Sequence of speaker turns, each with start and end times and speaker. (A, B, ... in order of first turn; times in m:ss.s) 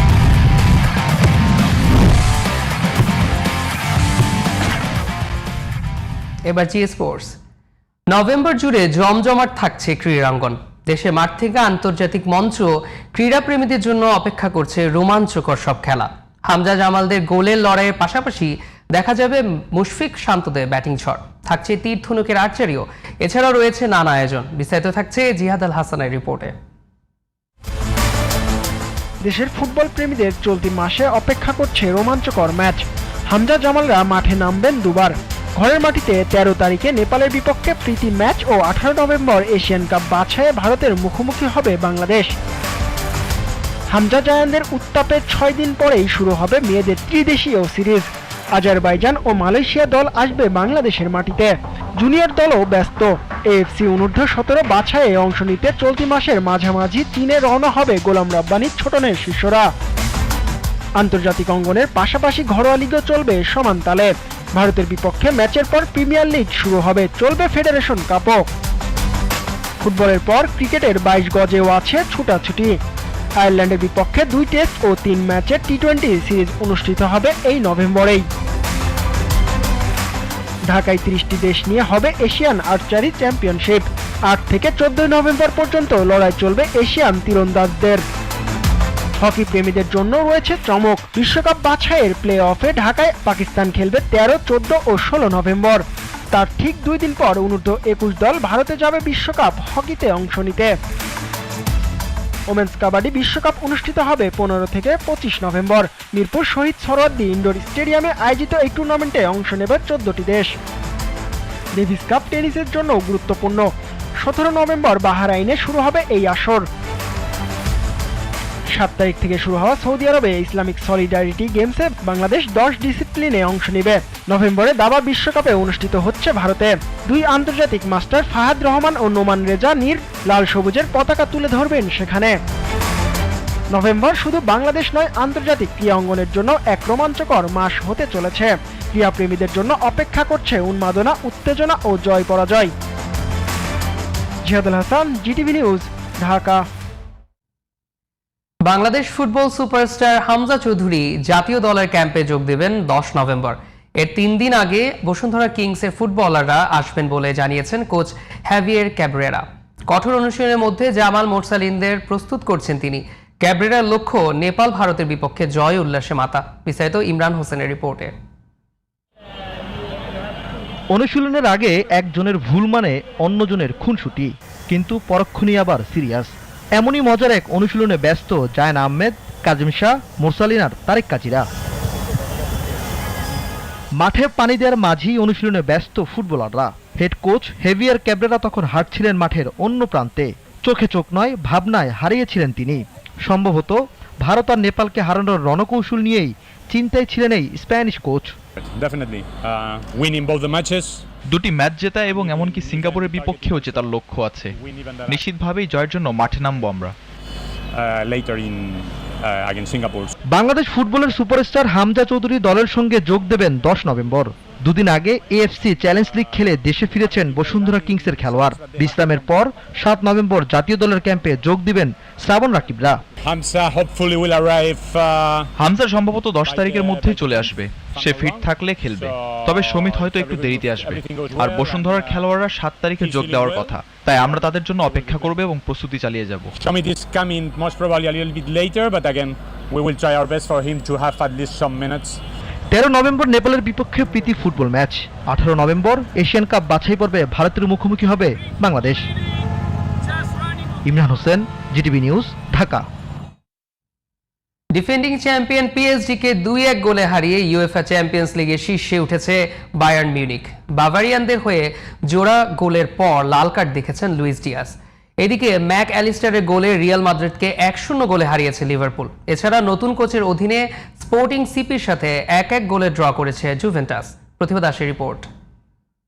0:06.5-0:07.3 A
0:08.1-0:26.5 A
0:29.2-0:42.3 B
0:43.9-0:59.7 B
1:01.0-1:08.4 B
1:09.8-1:12.8 B
1:13.4-1:18.2 B
1:20.7-1:28.0 B
1:29.2-1:40.7 B
1:42.5-1:50.5 B
1:51.8-1:53.7 B
1:54.2-1:56.6 B
1:58.7-2:12.4 B
2:13.7-2:22.7 B
2:24.4-2:26.6 B
2:28.6-2:48.1 A
2:50.9-3:01.4 C
3:04.0-3:18.3 C
3:18.6-3:21.0 D
3:21.3-3:24.5 E
3:22.0-3:23.9 D
3:24.5-3:25.2 D
3:25.1-3:26.9 E
3:27.7-3:30.1 D
3:30.3-3:43.0 C
3:35.8-3:39.4 D
3:43.2-3:45.5 D
3:45.6-3:56.5 E
3:46.4-3:52.2 D
3:53.0-3:55.4 D
3:56.6-4:02.2 D
4:02.7-4:09.0 C
4:10.8-4:12.8 C
4:14.7-4:35.3 A